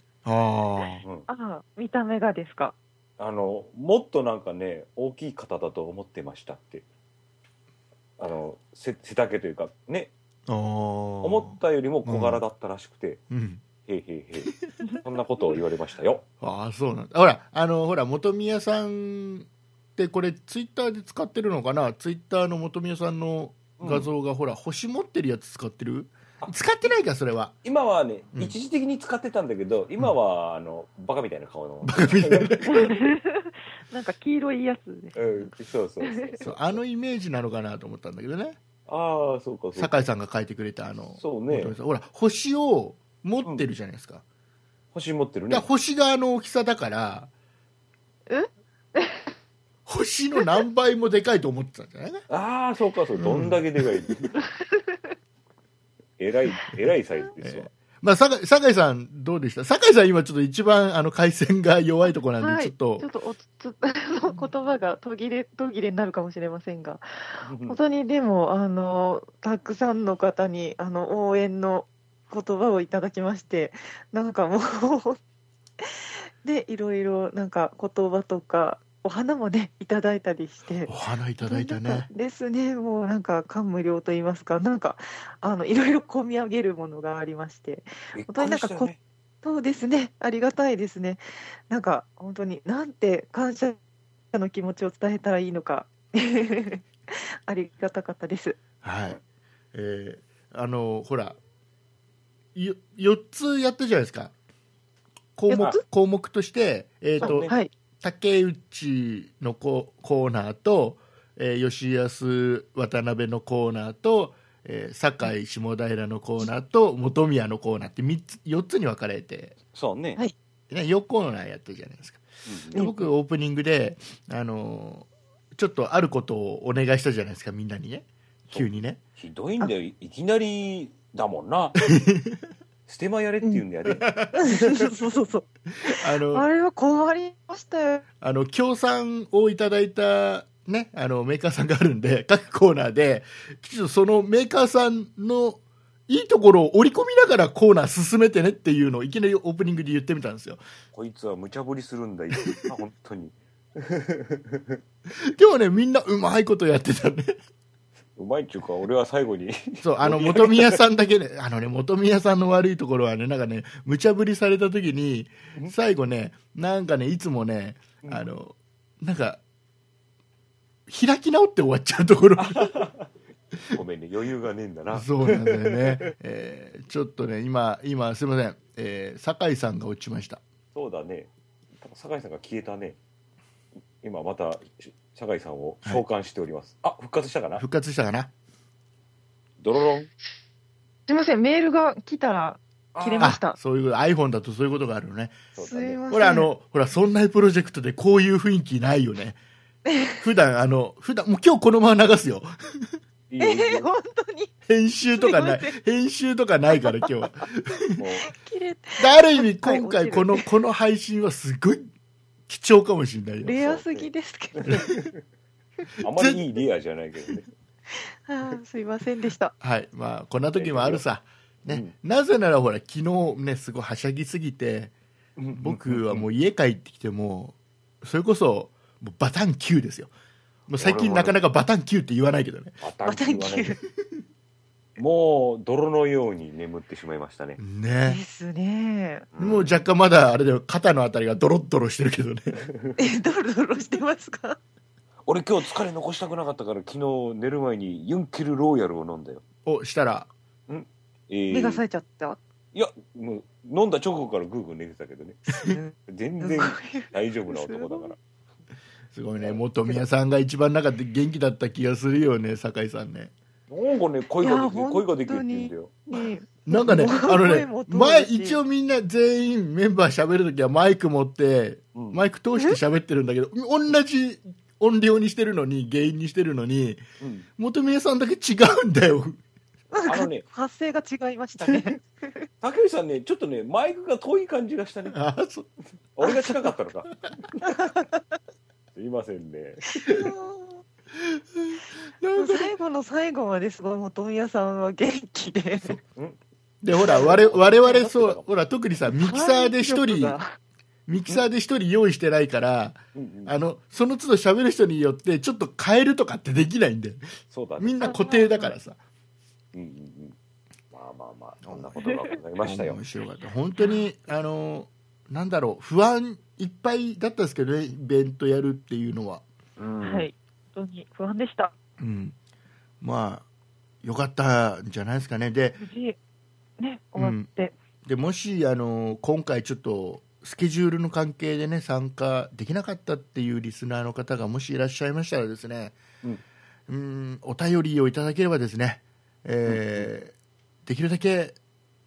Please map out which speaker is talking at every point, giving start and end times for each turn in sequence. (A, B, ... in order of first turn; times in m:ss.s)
0:00.2-0:01.0 A
0:01.3-0:02.8 B
0:03.2-0:06.8 C
0:08.2-0:10.1 C
0:10.5-0:12.4 A
0:11.2-0:13.2 C
0:13.3-0:13.6 A
0:13.8-0:14.5 C
0:14.4-0:14.7 A
0:15.0-0:16.2 C
0:16.4-0:27.6 A
0:23.8-0:24.1 C
0:26.4-0:26.9 C
0:27.6-0:33.0 C
0:31.8-0:32.9 A
0:32.7-0:36.5 B
0:35.1-0:36.8 C
0:36.4-0:38.6 A
0:38.9-0:39.9 C
0:39.8-0:44.2 A
0:41.2-0:41.8 C
0:44.9-0:45.7 C
0:45.5-0:47.3 A
0:48.3-0:49.3 B
0:49.9-0:52.2 A
0:50.4-0:50.6 B
0:52.3-0:54.3 C
0:53.2-0:53.6 A
0:54.4-0:55.1 B
0:56.2-0:57.7 C
0:56.7-1:03.1 A
1:02.4-1:15.2 B
1:07.4-1:07.8 C
1:15.8-1:33.8 B
1:20.9-1:22.1 A
1:28.1-1:29.0 C
1:34.3-1:38.6 B
1:38.8-1:39.2 A
1:39.7-1:41.4 A
1:42.6-1:44.3 A
1:45.4-1:59.6 A
1:45.5-1:45.8 B
1:45.5-1:45.8 C
1:47.2-1:47.6 C
1:47.2-1:47.7 B
1:59.7-2:00.2 C
2:00.7-2:09.0 A
2:02.5-2:02.9 C
2:02.7-2:03.1 B
2:08.5-2:11.8 C
2:11.8-2:12.4 A
2:12.9-2:14.9 C
2:13.8-2:14.3 A
2:14.4-2:18.0 B
2:15.9-2:16.5 A
2:18.2-2:30.6 A
2:30.9-2:34.8 C
2:35.3-2:37.4 A
2:38.2-2:40.8 C
2:39.8-2:49.4 A
2:48.0-2:48.3 C
2:50.9-2:52.8 A
2:52.4-2:53.1 C
2:53.7-2:55.9 C
2:54.9-3:00.4 A
3:00.7-3:03.0 C
3:04.0-3:07.6 C
3:07.6-3:08.3 A
3:09.6-3:10.1 C
3:11.1-3:13.6 B
3:12.9-3:13.4 C
3:13.2-3:15.5 A
3:15.6-3:16.0 C
3:15.6-3:16.5 B
3:16.1-3:19.4 A
3:19.8-3:20.2 B
3:20.2-3:22.9 A
3:23.3-3:23.9 C
3:23.4-3:24.5 B
3:24.7-3:28.0 A
3:25.1-3:25.8 B
3:26.8-3:27.5 B
3:28.0-3:28.3 C
3:28.2-3:30.5 B
3:29.0-3:31.9 A
3:32.5-3:33.6 A
3:33.4-3:34.9 B
3:33.6-3:35.0 C
3:36.0-3:36.4 A
3:36.0-3:37.5 C
3:37.9-3:39.5 B
3:39.6-3:44.9 A
3:40.5-3:41.0 C
3:41.7-3:41.9 C
3:45.4-3:46.3 C
3:45.5-3:50.1 A
3:50.7-3:52.8 A
3:50.7-3:51.4 C
3:52.8-3:53.8 C
3:53.0-3:53.8 B
3:55.0-3:57.6 C
3:57.6-3:58.2 A
3:58.1-3:59.3 B
3:59.3-3:59.8 C
3:59.4-4:02.6 A
4:03.0-4:04.6 B
4:05.3-4:09.4 C
4:09.7-4:10.3 A
4:10.7-4:11.8 C
4:11.5-4:12.4 B
4:12.7-4:15.4 C
4:15.5-4:15.8 A
4:15.6-4:18.1 B
4:16.1-4:18.2 C
4:19.1-4:23.3 A
4:19.4-4:20.1 C
4:23.7-4:26.0 C
4:24.4-4:28.6 B
4:26.7-4:37.0 A
4:31.9-4:32.2 C
4:37.2-4:37.5 C
4:37.6-4:39.4 A
4:39.9-4:42.5 B
4:40.1-4:40.4 C
4:41.6-4:41.9 C
4:42.6-4:45.2 C
4:45.1-4:45.7 A
4:46.2-4:47.8 C
4:46.2-4:46.6 B
4:47.7-4:48.1 B
4:49.0-4:49.9 C
4:49.9-4:50.7 B
4:50.1-4:50.3 A
4:51.2-4:52.7 A
4:52.4-4:56.0 B
4:56.1-4:56.4 C
4:56.8-5:00.4 A
4:57.0-4:58.5 C
4:59.2-5:00.5 B
5:01.1-5:09.0 A
5:03.2-5:03.5 C
5:07.5-5:08.1 C
5:08.0-5:08.8 B
5:09.7-5:10.4 C
5:10.9-5:13.0 C
5:11.6-5:11.9 A
5:12.0-5:12.3 B
5:12.6-5:19.4 A
5:13.8-5:14.1 B
5:19.8-5:20.3 C
5:20.0-5:21.7 B
5:22.0-5:22.4 A
5:23.0-5:23.5 A
5:24.0-5:25.8 A
5:25.8-5:26.2 B
5:26.8-5:27.8 B
5:27.2-5:27.5 A
5:28.0-5:36.0 A
5:36.9-5:40.3 A
5:39.7-5:40.1 C
5:40.8-5:41.6 A